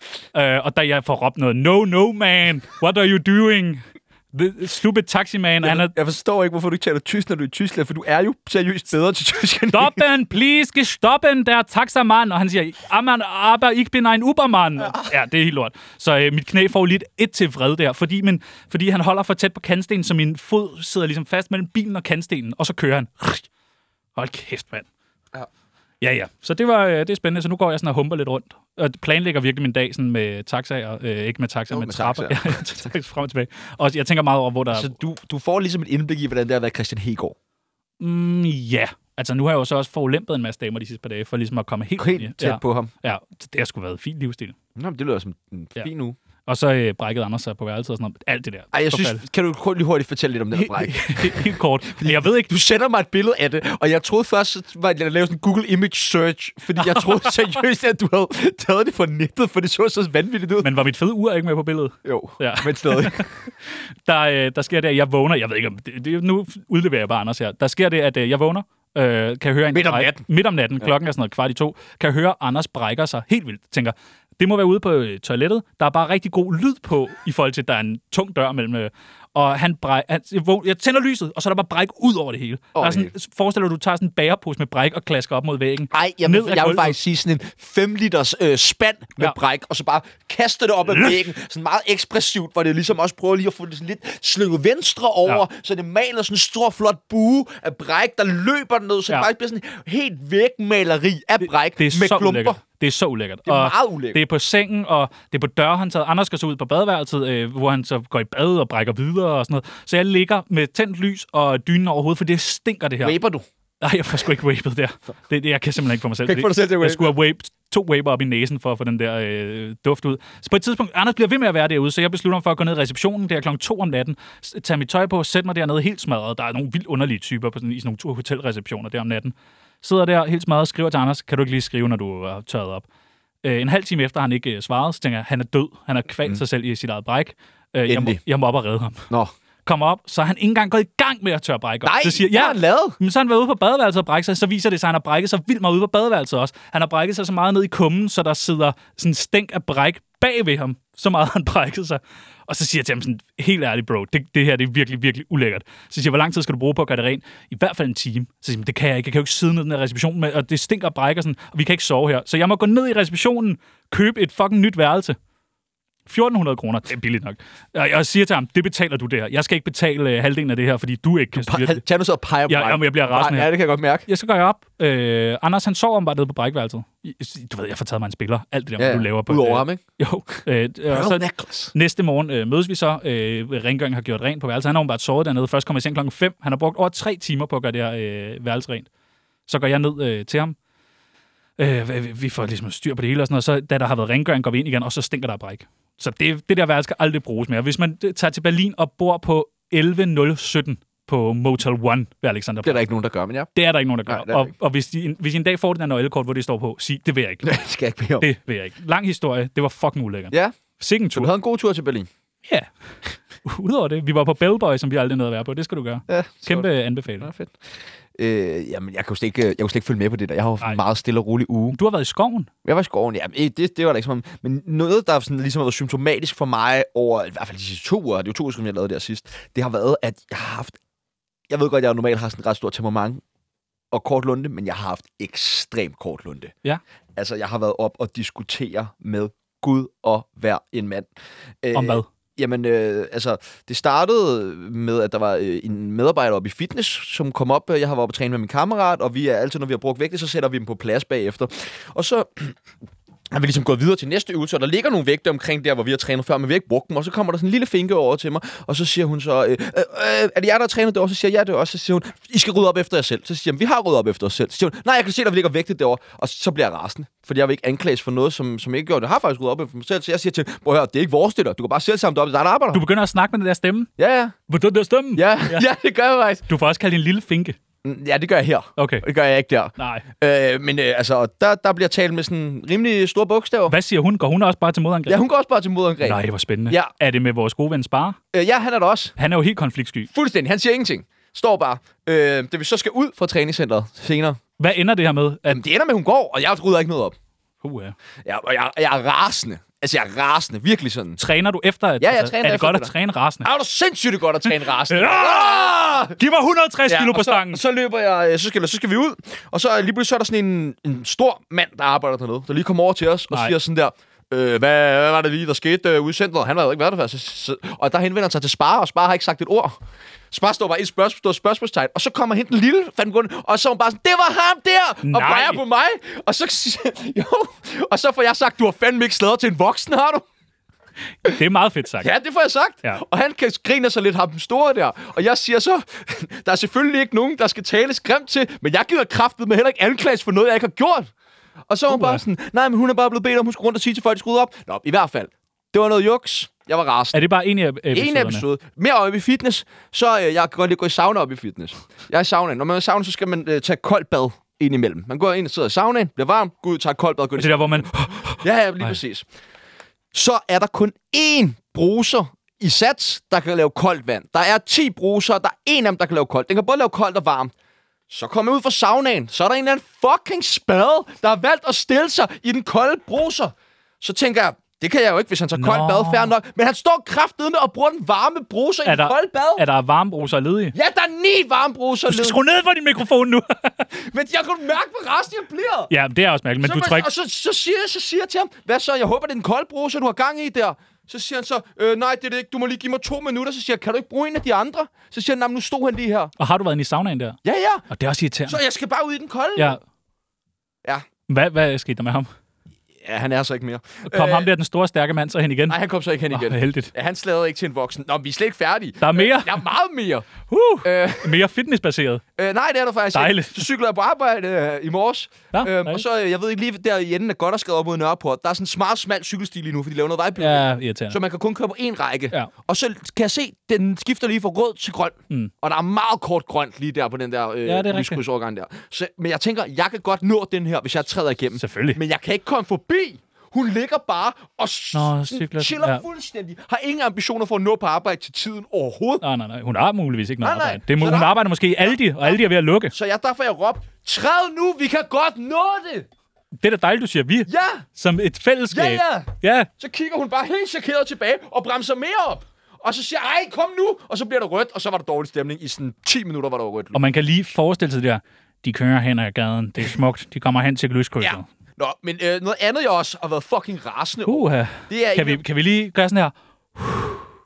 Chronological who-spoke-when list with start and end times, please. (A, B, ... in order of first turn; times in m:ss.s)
0:00.3-0:05.9 A
0:05.6-0:10.0 B
0:09.7-0:23.5 A
0:14.8-0:15.1 B
0:24.2-0:24.9 A
0:26.0-0:34.9 A
0:31.7-0:32.9 B
0:34.7-0:37.4 B
0:38.0-0:44.6 A
0:42.0-0:42.9 B
0:44.8-0:46.2 B
0:46.5-0:49.2 A
0:48.7-1:00.7 B
0:50.5-0:52.5 A
0:56.8-0:57.5 A
1:00.6-1:27.0 A
1:02.0-1:03.3 B
1:09.7-1:10.2 B
1:22.8-1:23.1 B
1:25.9-1:42.6 B
1:30.9-1:31.2 A
1:41.8-1:53.2 A
1:43.5-1:44.2 B
1:53.0-1:53.5 B
1:53.8-2:12.9 A
1:56.2-1:57.2 B
2:13.4-2:19.1 A
2:17.9-2:18.2 B
2:19.7-2:45.2 A
2:21.8-2:23.0 B
2:46.1-2:51.8 A
2:51.3-2:54.1 B
2:52.5-2:53.5 A
2:54.1-3:08.9 A
2:58.8-2:59.8 B
3:00.9-3:01.7 B
3:09.5-3:10.6 A
3:11.6-3:22.8 A
3:22.6-3:23.5 B
3:23.5-3:27.6 A
3:24.1-3:24.5 B
3:27.4-3:28.3 B
3:28.2-3:31.3 A
3:31.1-3:32.1 B
3:33.4-3:37.3 A
3:36.1-3:36.7 B
3:37.2-3:41.8 B
3:41.7-3:42.5 A
3:42.6-3:50.8 B
3:51.5-3:53.2 B
3:53.9-3:56.5 B
3:57.2-4:01.1 B
4:01.6-4:12.6 B
4:01.7-4:02.1 A
4:13.3-4:32.8 B
4:32.7-4:33.9 A
4:34.0-4:34.4 B
4:34.5-4:35.6 A
4:35.2-4:36.4 B
4:36.5-4:37.6 A
4:37.8-4:43.8 B
4:38.8-4:39.1 A
4:39.8-4:40.1 A
4:43.7-4:45.2 A
4:45.1-4:46.9 B
4:46.0-4:48.2 A
4:48.3-4:49.2 B
4:49.2-4:50.1 A
4:50.1-4:54.4 B
4:54.6-4:55.6 A
4:55.5-4:57.2 B
4:57.6-4:58.0 A
4:58.2-5:01.2 B
5:01.2-5:03.5 A
5:02.0-5:02.9 B
5:03.4-5:06.2 B
5:04.4-5:07.6 A
5:06.9-5:19.8 B
5:20.3-5:30.3 B
5:25.0-5:25.6 A
5:31.2-5:32.1 A
5:32.0-5:41.1 B
5:41.7-5:47.3 B
5:41.9-5:42.2 A
5:47.1-5:48.5 A
5:47.9-5:59.3 B
5:57.4-5:59.0 A
6:00.1-6:07.5 B
6:08.1-6:19.6 B
6:15.6-6:16.3 A
6:18.8-6:20.8 A
6:20.7-6:22.4 B
6:22.1-6:23.9 A
6:23.9-6:25.9 B
6:25.9-6:27.1 A
6:26.6-6:36.3 B
6:36.4-6:37.4 A
6:37.4-6:37.9 B
6:37.9-6:38.6 A
6:38.5-6:39.8 B
6:39.6-6:39.8 A
6:41.3-6:42.3 A
6:43.0-6:44.5 B
6:44.1-6:45.8 A
6:45.7-6:50.3 B
6:46.3-6:46.9 A
6:49.0-6:49.6 A
6:50.5-6:52.2 A
6:50.8-6:51.4 B
6:52.4-7:19.2 B
6:53.1-6:53.7 A
6:55.5-6:56.0 A
7:00.4-7:01.2 A
7:07.7-7:08.2 A
7:11.6-7:12.0 A
7:14.9-7:16.0 A
7:19.2-7:23.0 A
7:20.4-7:22.4 B
7:22.9-7:26.1 B
7:26.6-7:29.7 A
7:27.5-7:27.9 B
7:28.7-7:37.0 B
7:36.9-7:41.5 A
7:41.2-7:45.4 B
7:44.3-7:47.3 A